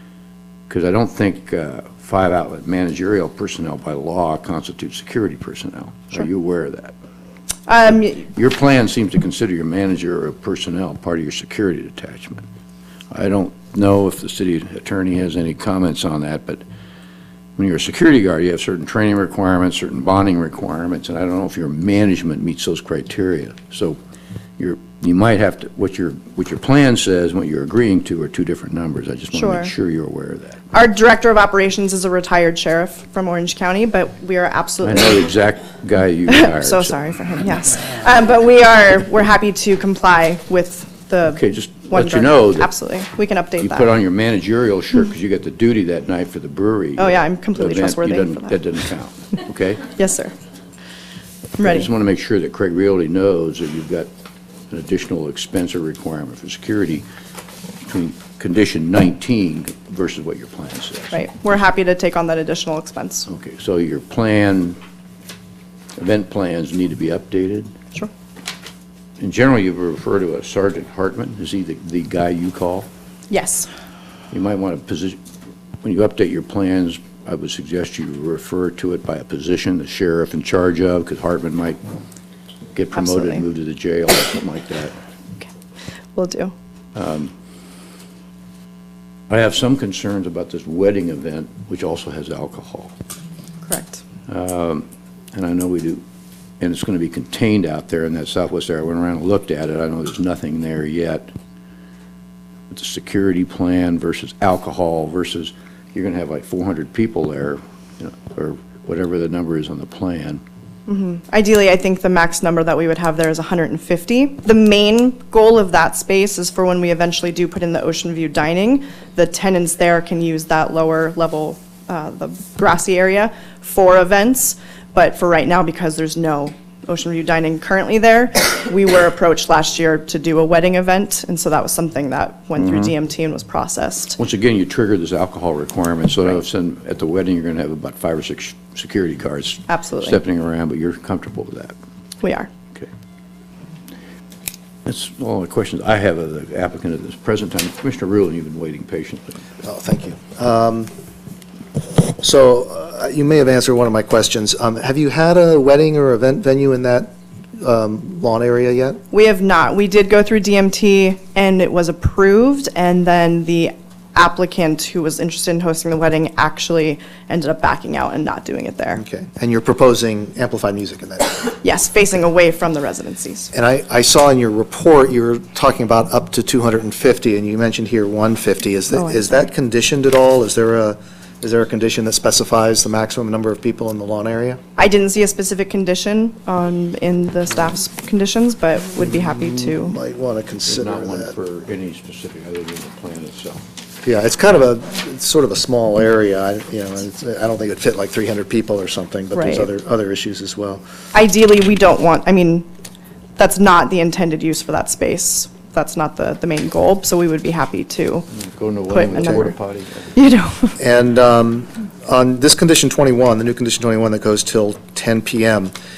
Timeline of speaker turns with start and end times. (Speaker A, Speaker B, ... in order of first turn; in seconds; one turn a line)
Speaker A: 0.7-6.9
Speaker B: 7.7-8.3
Speaker A: 8.2-12.4
Speaker A: 13.1-16.6
Speaker A: 17.6-24.0
Speaker A: 24.6-30.6
Speaker B: 29.3-29.7
Speaker B: 30.7-35.3
Speaker A: 34.8-36.9
Speaker B: 36.3-43.9
Speaker A: 41.4-42.7
Speaker A: 43.6-49.8
Speaker B: 47.0-48.6
Speaker B: 50.0-50.3
Speaker B: 51.6-51.9
Speaker A: 51.6-54.1
Speaker A: 54.7-57.0
Speaker A: 57.8-61.2
Speaker B: 61.1-63.3
Speaker A: 63.3-64.8
Speaker A: 66.0-67.7
Speaker A: 69.2-72.9
Speaker B: 73.3-73.7
Speaker A: 74.3-75.2
Speaker A: 75.8-81.8
Speaker A: 82.7-84.9
Speaker B: 82.9-83.4
Speaker B: 86.1-86.5
Speaker A: 86.9-87.3
Speaker A: 89.3-92.9
Speaker B: 93.6-94.0
Speaker A: 94.3-96.0
Speaker A: 96.6-101.3
Speaker A: 102.7-110.4
Speaker B: 110.9-134.2
Speaker A: 132.6-132.9
Speaker A: 134.2-141.7
Speaker B: 139.7-140.2
Speaker B: 142.2-142.5
Speaker A: 144.8-149.4
Speaker C: 149.6-150.9
Speaker C: 152.2-159.0
Speaker B: 159.1-169.0
Speaker C: 169.0-171.5
Speaker B: 171.6-173.5
Speaker C: 173.5-184.6
Speaker B: 178.9-179.5
Speaker B: 184.8-190.0
Speaker C: 189.0-191.3
Speaker A: 190.7-193.6
Speaker C: 194.0-200.8
Speaker B: 199.3-199.7
Speaker B: 201.1-202.7
Speaker B: 203.4-208.3
Speaker A: 208.3-210.1
Speaker B: 208.9-209.5
Speaker C: 209.1-209.5
Speaker B: 210.1-210.8
Speaker C: 210.8-215.7